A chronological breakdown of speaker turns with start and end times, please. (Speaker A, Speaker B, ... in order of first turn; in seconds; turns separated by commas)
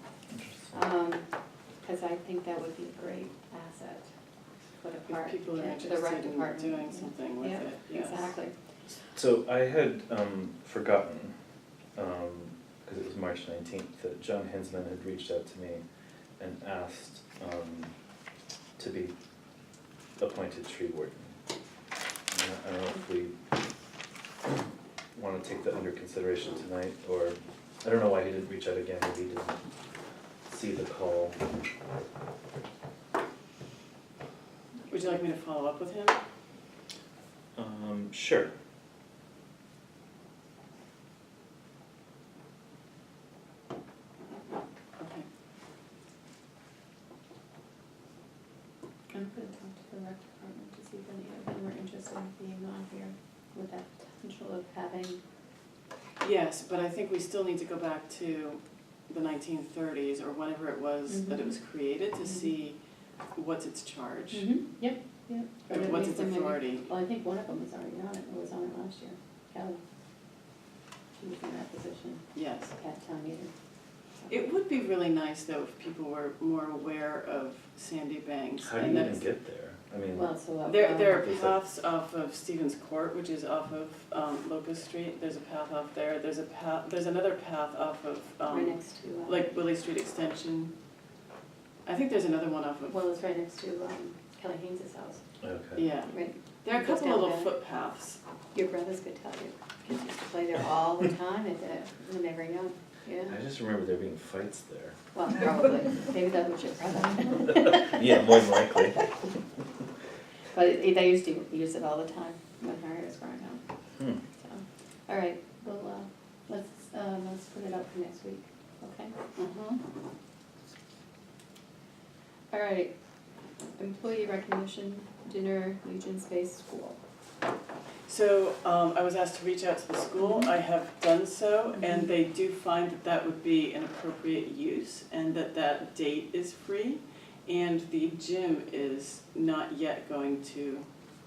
Speaker A: 0.3-0.8, Speaker B: 0.7-1.2, Speaker B: 1.8-4.1, Speaker B: 4.8-8.5, Speaker C: 5.1-8.3, Speaker A: 9.1-11.3, Speaker A: 12.0-15.8, Speaker A: 16.4-17.9, Speaker A: 18.8-19.1, Speaker A: 20.2-21.3, Speaker A: 22.3-23.3, Speaker A: 25.1-29.6, Speaker A: 30.5-31.4, Speaker C: 34.9-36.2, Speaker A: 37.5-38.5, Speaker C: 45.0-45.3, Speaker B: 49.1-55.2, Speaker C: 56.2-62.8, Speaker B: 61.1-61.6, Speaker C: 63.4-64.5, Speaker B: 64.3-69.8, Speaker C: 65.7-66.9, Speaker B: 71.2-73.5, Speaker C: 72.3-72.7, Speaker C: 74.3-79.2, Speaker A: 78.6-80.3, Speaker B: 80.1-81.3, Speaker C: 80.7-90.7, Speaker A: 81.2-81.5, Speaker B: 88.5-89.5, Speaker C: 91.9-93.0, Speaker B: 92.9-95.2, Speaker A: 95.4-95.9, Speaker C: 95.8-98.2, Speaker B: 96.1-97.5, Speaker B: 98.5-103.4, Speaker A: 103.3-105.0, Speaker B: 105.1-109.0, Speaker A: 107.6-109.0, Speaker B: 110.5-113.6, Speaker B: 114.4-119.2, Speaker C: 119.4-119.8, Speaker B: 122.5-122.9, Speaker B: 123.8-127.0, Speaker C: 128.1-140.9, Speaker B: 130.2-130.5, Speaker B: 131.8-132.1